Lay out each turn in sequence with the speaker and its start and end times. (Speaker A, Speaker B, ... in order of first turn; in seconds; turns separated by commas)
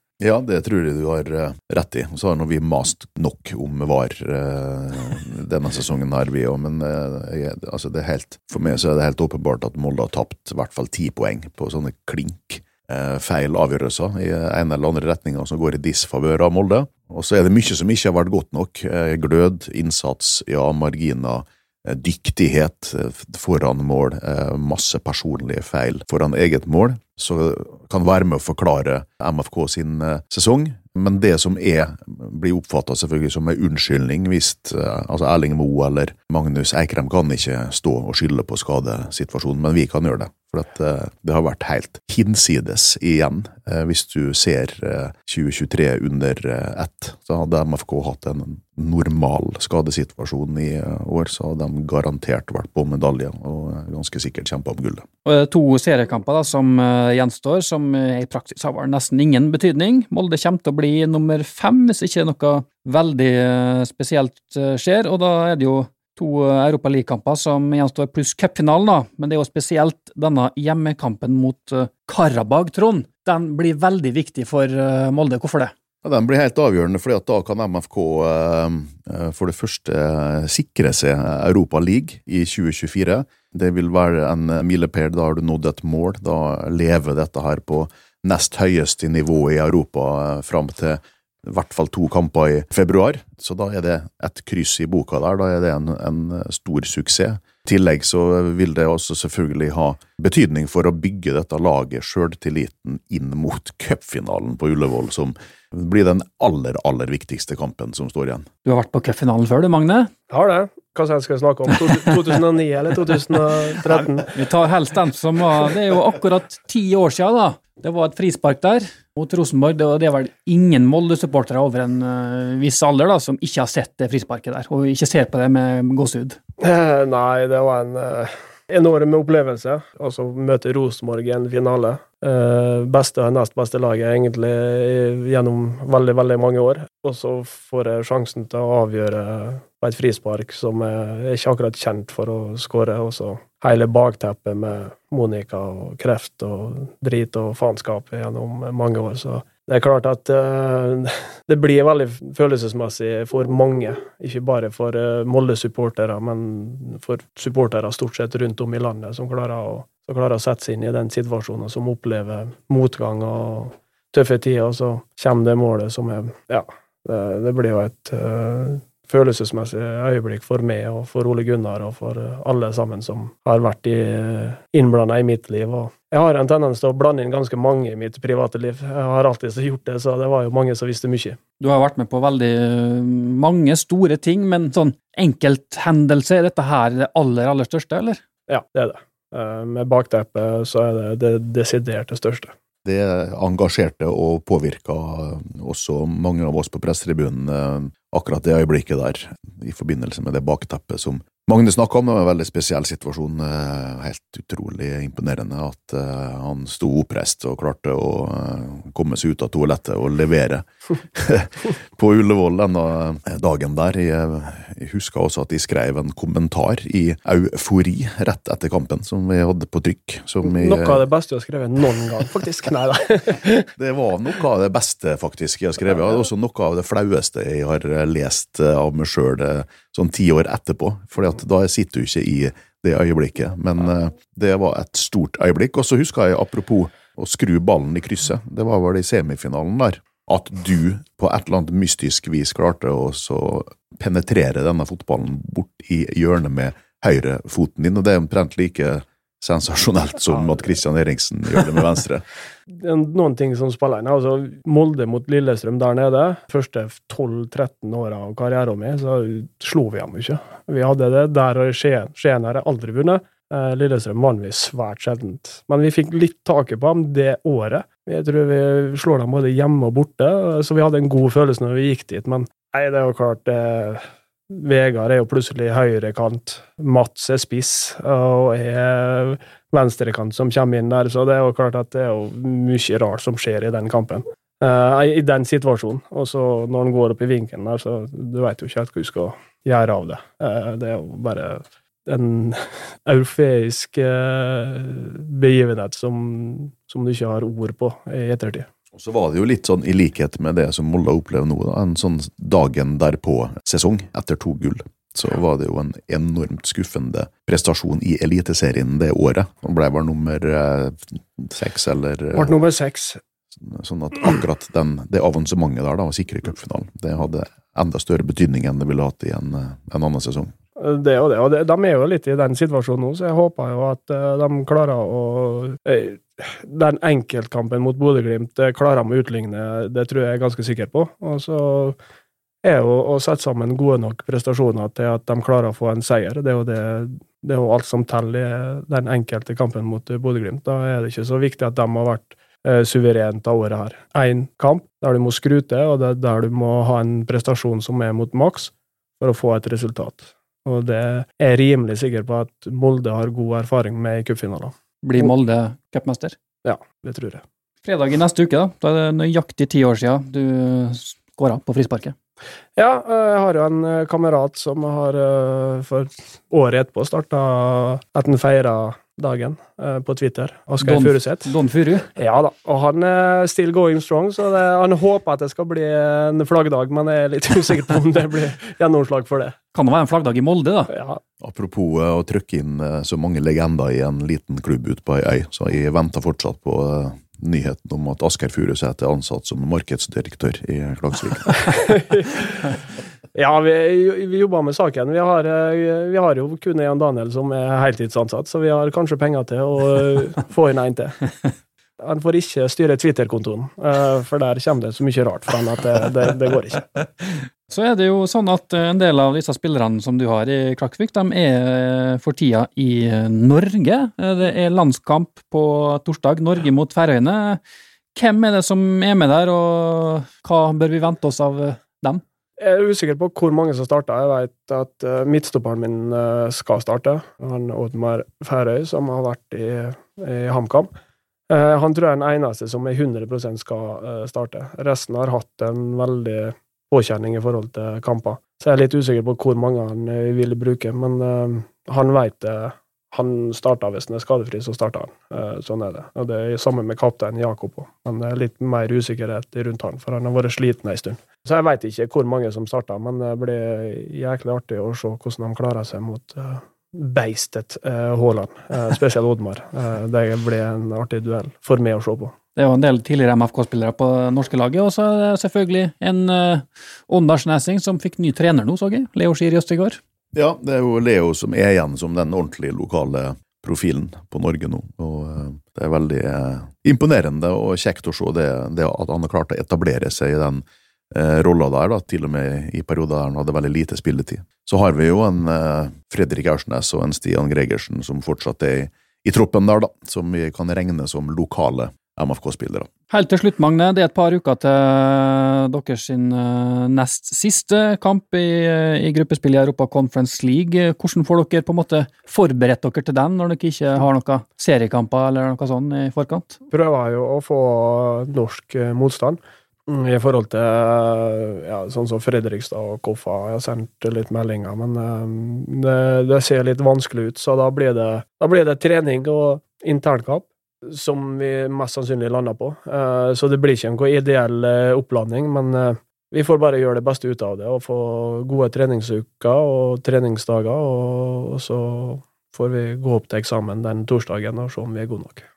Speaker A: 0.2-55.1, Speaker B: 55.2-75.7, Speaker A: 76.0-108.5, Speaker B: 108.6-110.1, Speaker C: 110.3-114.3, Speaker B: 114.3-126.4, Speaker C: 126.6-181.4, Speaker B: 181.6-188.2, Speaker C: 188.5-192.5, Speaker A: 192.8-221.0, Speaker C: 220.4-223.7, Speaker A: 223.8-252.2, Speaker C: 252.7-298.7, Speaker A: 298.9-312.5, Speaker C: 312.3-313.2, Speaker A: 313.6-320.5, Speaker C: 320.8-332.0, Speaker C: 332.6-355.3, Speaker B: 355.0-356.4, Speaker C: 356.6-357.4, Speaker B: 357.8-362.1, Speaker C: 362.8-371.5, Speaker B: 370.8-372.1, Speaker C: 372.1-379.6, Speaker B: 379.7-380.9, Speaker C: 380.9-381.2, Speaker A: 381.4-391.7, Speaker C: 391.7-392.6, Speaker C: 393.3-401.2, Speaker C: 402.0-406.9, Speaker B: 407.7-417.6, Speaker B: 418.1-422.2, Speaker C: 422.6-430.9, Speaker C: 431.5-462.3, Speaker B: 462.6-470.0, Speaker A: 470.3-492.9, Speaker B: 493.1-506.6, Speaker C: 506.7-535.4